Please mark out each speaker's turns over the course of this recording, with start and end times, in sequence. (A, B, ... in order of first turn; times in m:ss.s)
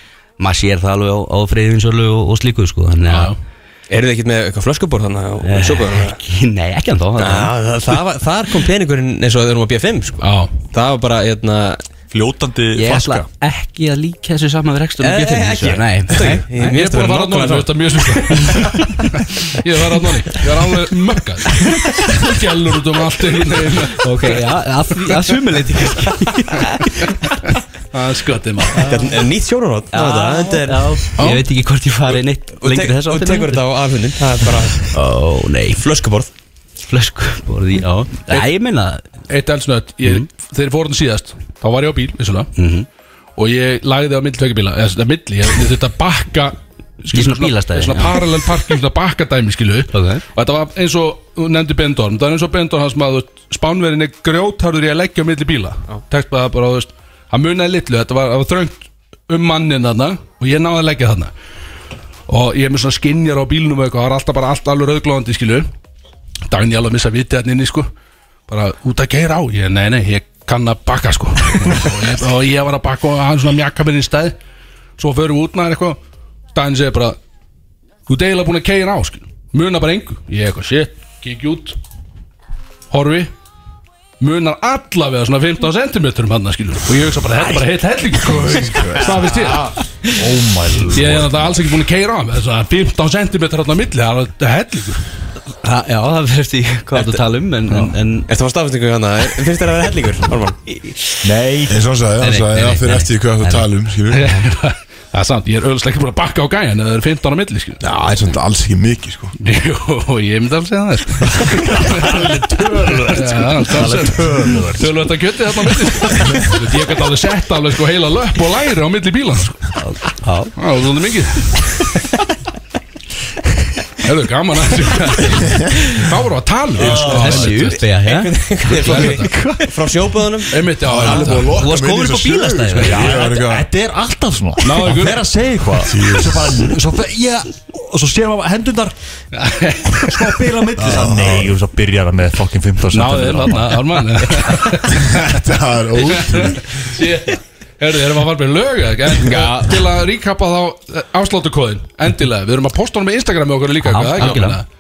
0:00.4-0:03.4 A
0:03.1-0:03.4 B
0:03.9-0:06.2 C
0:05.4-0:07.5 A
0:07.2-0:11.8 C
0:10.2-0:10.5 B
0:12.1-0:13.3 D
0:12.8-0:16.5 A
0:15.0-0:18.7 C
0:16.6-0:24.1 B
0:24.0-0:27.3 A
0:27.4-0:28.9 B
0:28.8-0:29.2 A
0:28.8-0:31.1 C
0:29.9-0:33.6 A
0:31.2-0:31.5 B
0:32.6-0:35.0 C
0:34.9-0:35.8 A
0:35.8-0:36.3 C
0:36.8-0:39.0 A
0:39.3-0:42.5 B
0:42.6-0:42.9 A
0:43.4-1:01.3 B
0:47.1-0:48.2 A
0:49.9-0:50.2 A
1:02.3-1:05.7 B
1:06.5-1:07.9 B
1:08.5-1:14.4 B
1:15.0-1:16.0 B
1:16.6-1:17.2 B
1:18.1-1:21.8 B
1:22.9-1:23.3 B
1:24.2-1:29.7 B
1:28.2-1:29.5 E
1:30.1-1:31.4 D
1:30.9-1:35.0 B
1:35.6-1:38.3 A
1:37.0-1:37.2 C
1:38.3-1:40.6 C
1:41.2-1:41.8 D
1:41.7-1:44.3 E
1:42.2-1:44.4 A
1:44.1-1:47.8 B
1:47.8-1:49.3 E
1:49.4-1:52.2 B
1:51.5-1:54.9 D
1:53.1-1:59.7 B
1:59.8-2:00.5 A
2:00.6-2:01.7 B
2:04.0-2:07.8 B
2:06.8-2:07.7 D
2:06.8-2:09.5 A
2:08.0-2:11.4 C
2:08.8-2:09.3 B
2:10.5-2:11.6 B
2:10.8-2:13.7 E
2:11.5-2:13.1 A
2:12.8-2:18.9 D
2:14.6-2:15.2 B
2:15.8-2:16.7 E
2:19.3-2:20.4 B
2:20.0-2:24.0 D
2:20.8-2:21.5 E
2:22.9-2:25.4 B
2:25.0-2:26.8 E
2:26.0-2:34.6 B
2:29.3-2:29.6 C
2:33.8-2:34.6 A